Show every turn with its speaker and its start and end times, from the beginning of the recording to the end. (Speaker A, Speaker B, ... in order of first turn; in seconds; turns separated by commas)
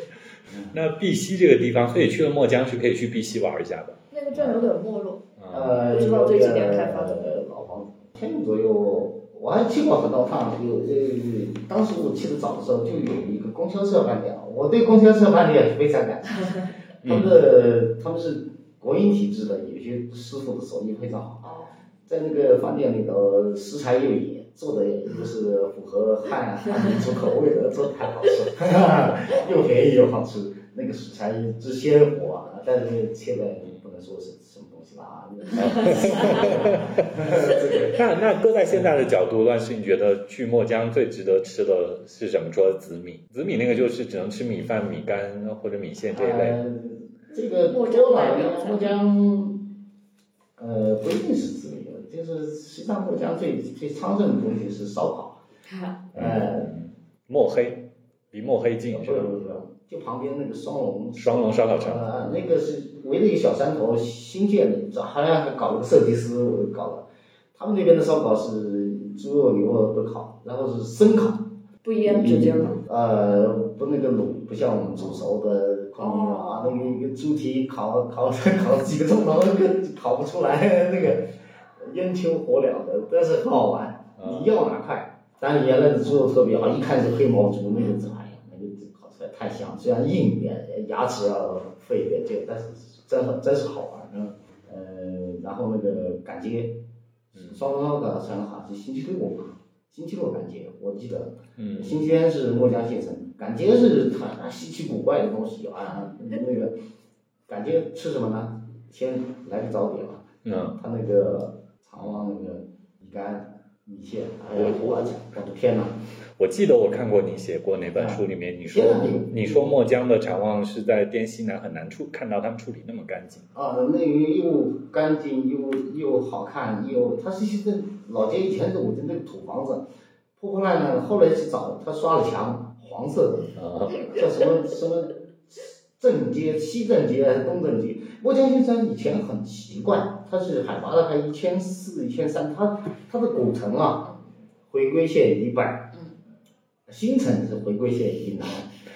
Speaker A: 0.5-0.8, Speaker B: 0.7-4.6, Speaker C: 4.1-5.2, Speaker B: 5.4-5.8, Speaker A: 5.5-21.5, Speaker C: 5.8-7.2, Speaker B: 17.0-17.4, Speaker C: 21.4-21.7, Speaker A: 22.1-38.0, Speaker B: 35.5-46.6, Speaker C: 35.9-36.5, Speaker A: 46.1-49.7, Speaker C: 47.4-49.0, Speaker A: 50.6-55.4, Speaker C: 55.6-56.0, Speaker A: 56.1-56.7, Speaker B: 56.1-59.4, Speaker A: 58.9-71.5, Speaker B: 61.2-62.1, Speaker C: 71.8-72.8, Speaker A: 72.0-106.7, Speaker C: 76.0-77.0, Speaker B: 84.2-84.5, Speaker B: 101.6-102.0, Speaker A: 107.5-116.0, Speaker B: 110.4-110.8, Speaker B: 114.5-115.1, Speaker B: 116.4-123.5, Speaker A: 117.9-119.8, Speaker A: 123.5-129.8, Speaker A: 130.4-144.1, Speaker B: 133.5-134.1, Speaker A: 144.7-146.0, Speaker A: 146.9-148.7